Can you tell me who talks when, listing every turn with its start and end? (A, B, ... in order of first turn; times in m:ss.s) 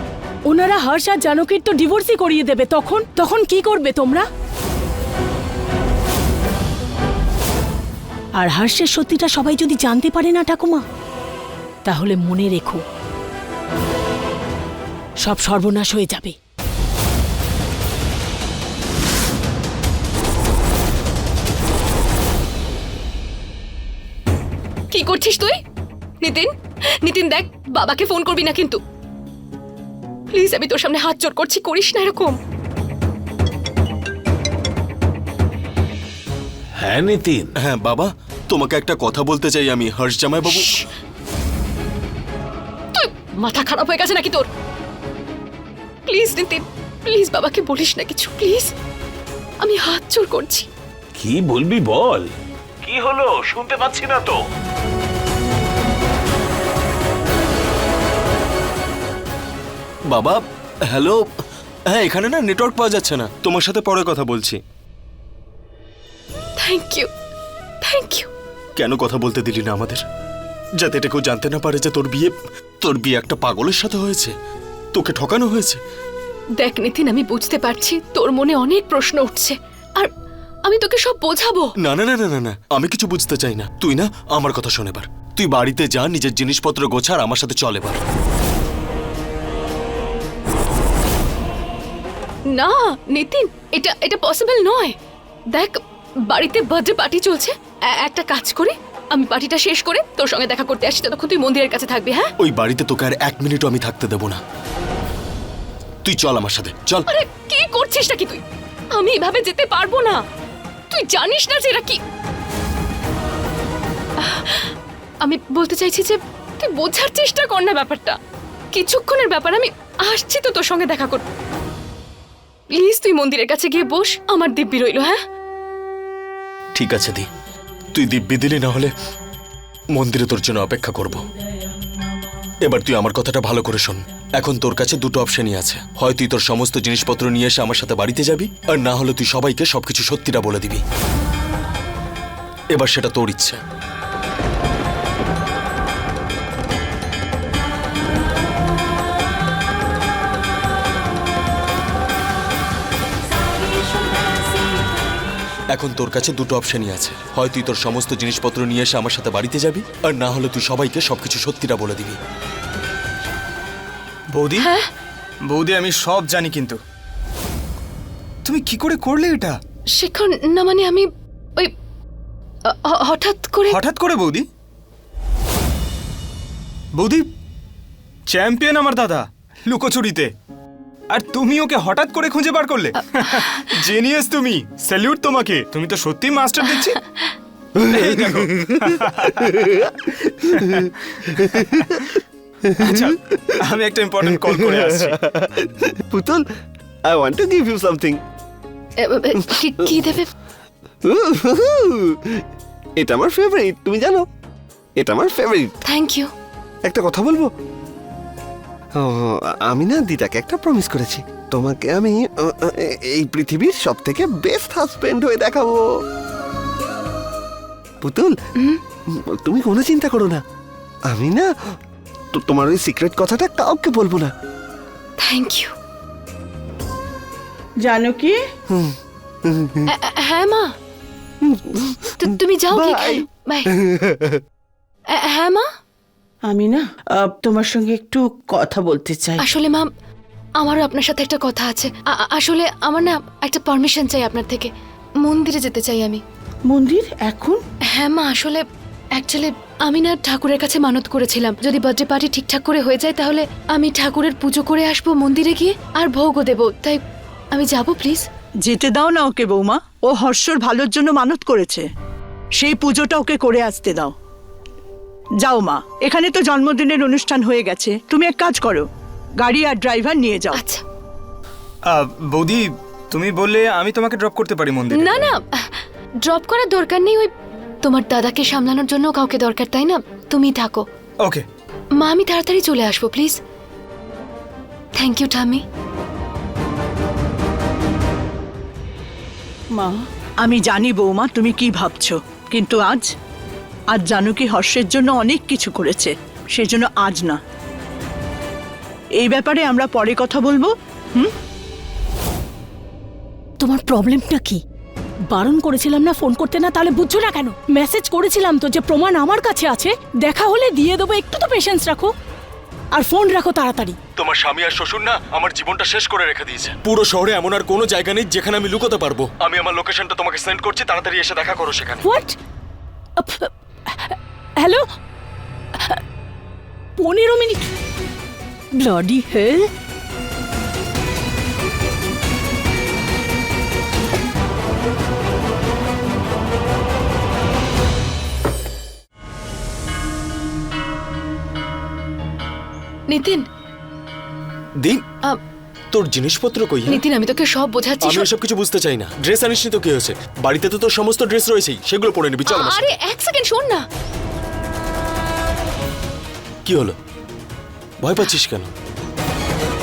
0:00.5-0:04.3 A
0:08.4-0:10.8 A
0:11.8-0:12.8 A
0:15.2-0:16.4 A
0:24.9-0:25.6 B
0:26.2-0:26.5 B
0:27.0-0:28.8 B
0:30.3-0:32.4 B
0:36.8-0:37.5 C
0:37.6-0:40.8 D
0:40.4-0:40.9 B
0:42.9-0:44.5 B
0:46.1-0:48.7 B
0:49.6-0:50.7 B
0:51.2-0:52.3 C
0:52.8-0:54.3 C
1:00.1-1:00.4 D
1:00.9-1:01.2 D
1:01.9-1:04.6 D
1:06.6-1:07.1 B
1:07.8-1:08.3 B
1:08.8-1:10.0 D
1:10.8-1:14.3 D
1:14.9-1:15.8 D
1:16.6-1:20.1 B
1:20.7-1:21.7 B
1:21.8-1:28.0 D
1:32.5-1:35.0 B
1:35.5-1:42.3 B
1:42.4-1:44.4 D
1:46.0-1:47.1 D
1:47.1-1:48.4 B
1:49.0-1:50.2 B
1:50.9-1:52.0 B
1:54.2-1:54.7 B
1:55.2-1:58.2 B
1:58.7-2:01.2 B
2:02.8-2:05.2 B
2:06.8-2:07.3 D
2:07.9-2:08.9 D
2:09.9-2:11.2 D
2:12.6-2:20.8 D
2:22.7-2:23.6 D
2:35.7-2:42.2 D
2:44.3-2:44.7 E
2:44.6-2:44.9 B
2:45.4-2:46.8 E
2:48.4-2:49.6 E
2:50.0-2:51.7 B
2:52.7-2:53.8 B
2:53.7-2:54.5 E
2:56.9-2:57.3 E
2:58.3-3:00.3 E
3:01.1-3:07.0 E
3:03.4-3:03.7 B
3:07.9-3:09.5 E
3:07.9-3:08.3 F
3:12.8-3:15.2 E
3:14.3-3:16.4 F
3:17.1-3:18.2 F
3:19.0-3:20.3 B
3:21.1-3:22.2 F
3:23.0-3:24.2 F
3:25.0-3:25.7 F
3:25.9-3:26.3 B
3:26.9-3:27.5 F
3:29.0-3:35.8 F
3:38.0-3:38.3 F
3:39.4-3:40.4 F
3:41.1-3:41.5 F
3:42.3-3:44.3 F
3:45.2-3:45.7 B
3:47.8-3:48.4 G
3:49.5-3:49.9 F
3:49.9-3:50.7 B
3:51.4-3:53.2 F
3:52.2-3:53.7 B
3:53.8-3:54.4 F
3:55.1-3:55.7 B
3:56.5-3:59.4 G
3:59.4-3:59.9 B
4:00.6-4:04.7 B
4:05.2-4:06.2 B
4:06.7-4:07.6 G
4:07.9-4:08.6 B
4:09.2-4:17.0 B
4:17.5-4:18.2 B
4:18.6-4:21.9 H
4:22.6-4:24.1 H
4:25.4-4:28.9 H
4:29.4-4:30.6 H
4:30.6-4:30.8 B
4:31.9-4:35.3 E
4:34.9-4:37.3 B
4:37.8-4:40.8 B
4:41.2-4:41.5 E
4:42.0-4:43.4 B
4:45.0-4:45.6 B
4:49.8-4:50.0 G
4:50.4-4:53.1 H
4:53.9-4:57.4 H
4:59.2-5:01.3 H
5:03.6-5:04.6 A
5:05.3-5:12.1 A
5:12.9-5:14.0 A
5:14.2-5:22.0 D
5:22.0-5:22.4 A
5:23.2-5:24.8 A
5:27.0-5:27.6 A
5:28.8-5:29.7 A
5:43.1-5:43.4 B
5:45.9-5:47.0 D
5:46.9-5:48.3 B
5:48.0-5:52.9 D
5:52.5-5:53.8 B
5:56.7-5:57.0 D
5:58.0-5:58.7 D